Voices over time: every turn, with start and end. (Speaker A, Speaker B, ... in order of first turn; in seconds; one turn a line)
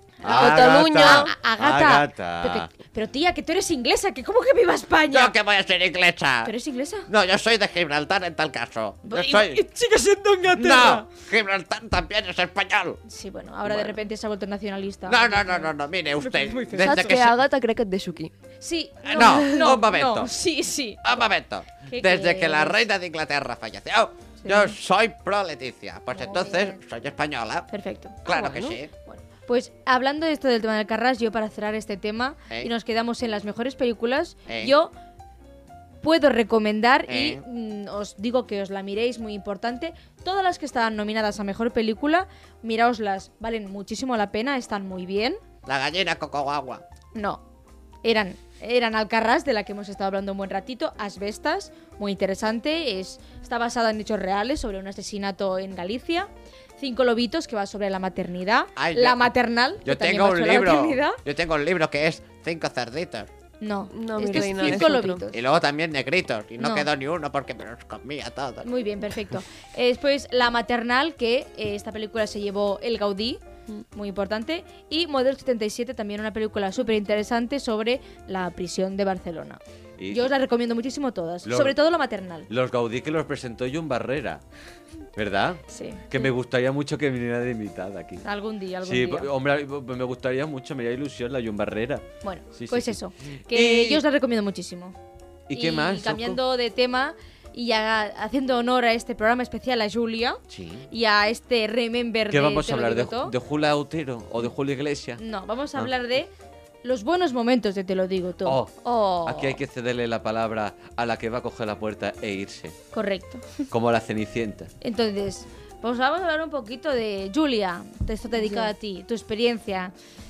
Speaker A: 0.2-2.7
Speaker B: 0.2-1.3
Speaker C: 0.3-5.3
Speaker D: 5.1-6.5
Speaker C: 6.5-7.1
Speaker D: 7.1-9.6
Speaker C: 9.0-11.1
Speaker D: 10.5-13.0
Speaker C: 13.1-17.2
Speaker D: 13.7-14.0
Speaker D: 15.1-17.3
Speaker B: 16.8-18.3
Speaker C: 18.6-21.2
Speaker D: 19.1-20.3
Speaker D: 21.0-27.7
Speaker C: 21.9-22.8
Speaker C: 24.4-24.8
Speaker C: 26.1-26.8
Speaker C: 27.7-28.2
Speaker D: 28.2-28.9
Speaker B: 28.3-28.8
Speaker C: 29.1-34.9
Speaker D: 34.5-34.7
Speaker C: 36.0-45.4
Speaker D: 37.1-37.4
Speaker D: 45.7-46.8
Speaker C: 47.1-47.4
Speaker C: 48.0-61.2
Speaker D: 58.8-59.3
Speaker D: 59.8-63.3
Speaker C: 63.6-65.4
Speaker B: 63.9-65.2
Speaker D: 64.4-68.7
Speaker C: 66.6-66.9
Speaker C: 68.6-73.4
Speaker C: 73.9-82.5
Speaker A: 80.0-80.3
Speaker A: 81.5-81.8
Speaker A: 82.5-84.4
Speaker A: 85.2-88.2
Speaker C: 85.7-86.3
Speaker C: 88.2-89.3
Speaker A: 88.8-94.0
Speaker C: 92.2-95.0
Speaker A: 95.5-96.4
Speaker C: 95.5-103.3
Speaker A: 100.5-100.9
Speaker A: 102.3-105.2
Speaker C: 105.2-106.3
Speaker C: 106.8-109.6
Speaker A: 108.5-112.8
Speaker C: 112.9-113.7
Speaker A: 113.7-114.7
Speaker C: 114.8-119.9
Speaker B: 118.4-118.7